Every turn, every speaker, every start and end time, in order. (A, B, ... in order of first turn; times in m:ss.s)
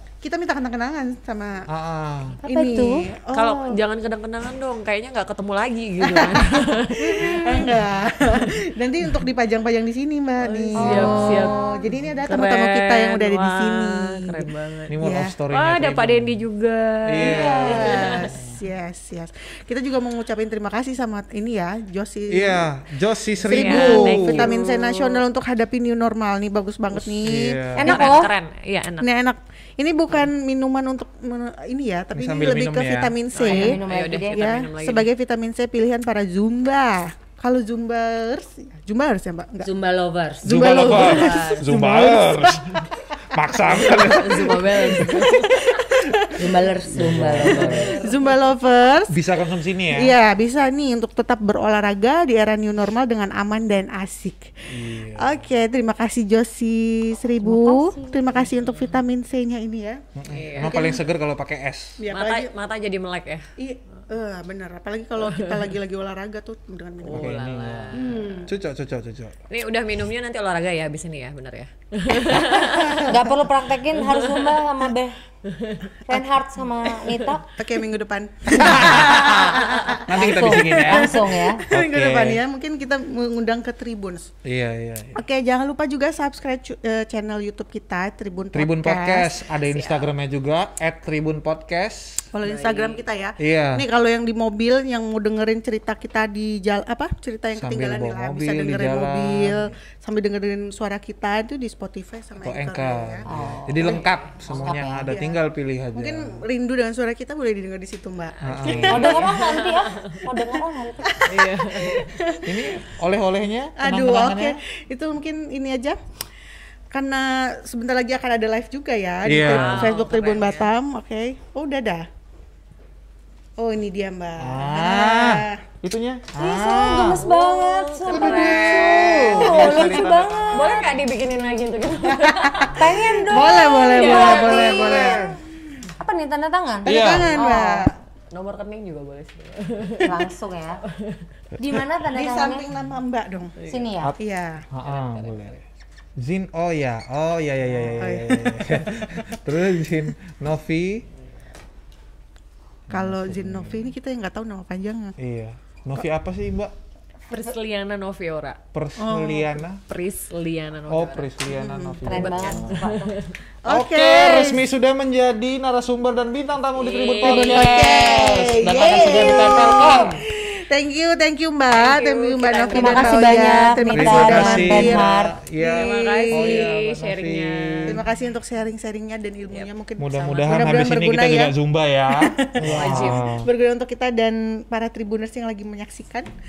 0:00.2-0:01.6 A
0:01.7-0:02.4 B
0:02.4-0:03.0 C
0:02.4-0:03.8 A
0:03.3-0:07.8 D
0:06.0-0:14.4 A
0:10.4-0:15.0 D
0:10.9-0:11.4 B
0:14.9-0:16.4 B
0:15.0-0:15.4 A
0:15.5-0:18.4 D
0:17.1-0:18.6 B
0:17.2-0:22.7 A
0:22.3-0:24.5 B
0:23.4-0:28.0 A
0:23.4-0:25.2 D
0:27.2-0:28.0 B
0:27.8-0:28.3 C
0:27.8-0:29.1 D
0:29.0-0:39.7 A
0:32.1-0:33.3 B
0:33.3-0:35.1 D
0:33.4-0:34.5 C
0:39.6-0:40.7 C
0:40.4-0:42.6 A
0:40.4-0:42.8 B
0:40.5-0:41.7 D
0:43.3-0:45.2 B
0:43.5-0:47.1 A
0:43.9-0:46.0 D
0:46.4-0:48.2 C
0:46.9-0:47.9 B
0:47.4-0:48.1 D
0:47.6-0:49.3 A
0:49.1-0:50.2 B
0:49.9-1:00.0 A
0:54.7-0:55.4 B
0:57.4-0:58.4 C
0:58.6-0:59.0 D
1:00.2-1:02.0 B
1:00.3-1:00.8 D
1:00.6-1:01.0 A
1:02.0-1:02.5 A
1:02.1-1:03.4 D
1:03.6-1:07.4 A
1:05.2-1:05.7 D
1:07.0-1:08.4 D
1:07.1-1:09.4 B
1:08.0-1:08.6 A
1:09.5-1:13.3 D
1:12.4-1:13.0 A
1:13.0-1:15.2 C
1:14.0-1:14.6 D
1:15.5-1:16.0 D
1:16.1-1:17.4 C
1:17.6-1:24.4 A
1:18.5-1:21.2 B
1:19.6-1:20.0 D
1:20.1-1:21.7 C
1:21.7-1:22.4 B
1:24.4-1:25.2 B
1:25.2-1:29.4 A
1:28.5-1:32.3 B
1:29.6-1:30.1 D
1:32.3-1:49.5 A
1:32.4-1:33.0 D
1:33.4-1:33.8 B
1:37.5-1:39.7 B
1:42.4-1:46.4 B
1:43.3-1:45.2 C
1:43.8-1:44.2 D
1:48.4-1:50.2 D
1:48.4-1:49.2 B
1:48.8-1:51.3 C
1:51.2-1:52.9 A
1:51.3-1:52.2 D
1:52.5-1:54.6 B
1:53.8-1:56.0 A
1:56.9-2:02.0 A
1:59.2-2:00.0 B
1:59.4-2:00.7 D
2:03.6-2:05.6 A
2:04.4-2:07.2 B
2:06.4-2:11.4 C
2:07.2-2:10.0 D
2:08.1-2:10.6 B
2:10.5-2:12.8 D
2:12.3-2:15.2 A
2:12.7-2:15.4 C
2:13.4-2:15.0 D
2:14.2-2:15.4 B
2:16.0-2:17.9 C
2:16.8-2:17.4 B
2:16.8-2:17.9 A
2:18.3-2:20.1 D
2:20.0-2:20.8 C
2:21.0-2:21.2 D
2:21.6-2:22.7 C
2:22.1-2:23.6 A
2:23.6-2:24.0 D
2:23.7-2:24.2 C
2:24.2-2:24.6 A
2:24.7-2:25.6 B
2:24.8-2:25.6 D
2:26.2-2:31.1 B
2:27.8-2:29.4 A
2:32.9-2:33.9 B
2:32.9-2:35.2 A
2:35.2-2:36.7 B
2:37.3-2:38.6 D
2:38.7-2:39.8 B
2:39.0-2:39.6 A
2:39.9-2:41.3 D
2:40.9-2:42.8 B
2:41.4-2:42.4 A
2:42.0-2:43.1 C
2:42.1-2:43.3 D
2:43.7-2:44.7 A
2:43.7-2:50.2 B
2:46.7-2:47.7 D
2:47.2-2:55.0 A
2:51.7-2:54.2 D
2:52.7-2:55.4 C
2:53.9-2:55.7 B
2:55.6-2:58.0 D
2:55.6-2:56.7 A
2:56.3-2:57.8 B
2:57.9-3:01.5 A
3:00.0-3:03.5 B
3:00.5-3:00.8 D
3:02.5-3:06.3 A
3:02.6-3:03.3 D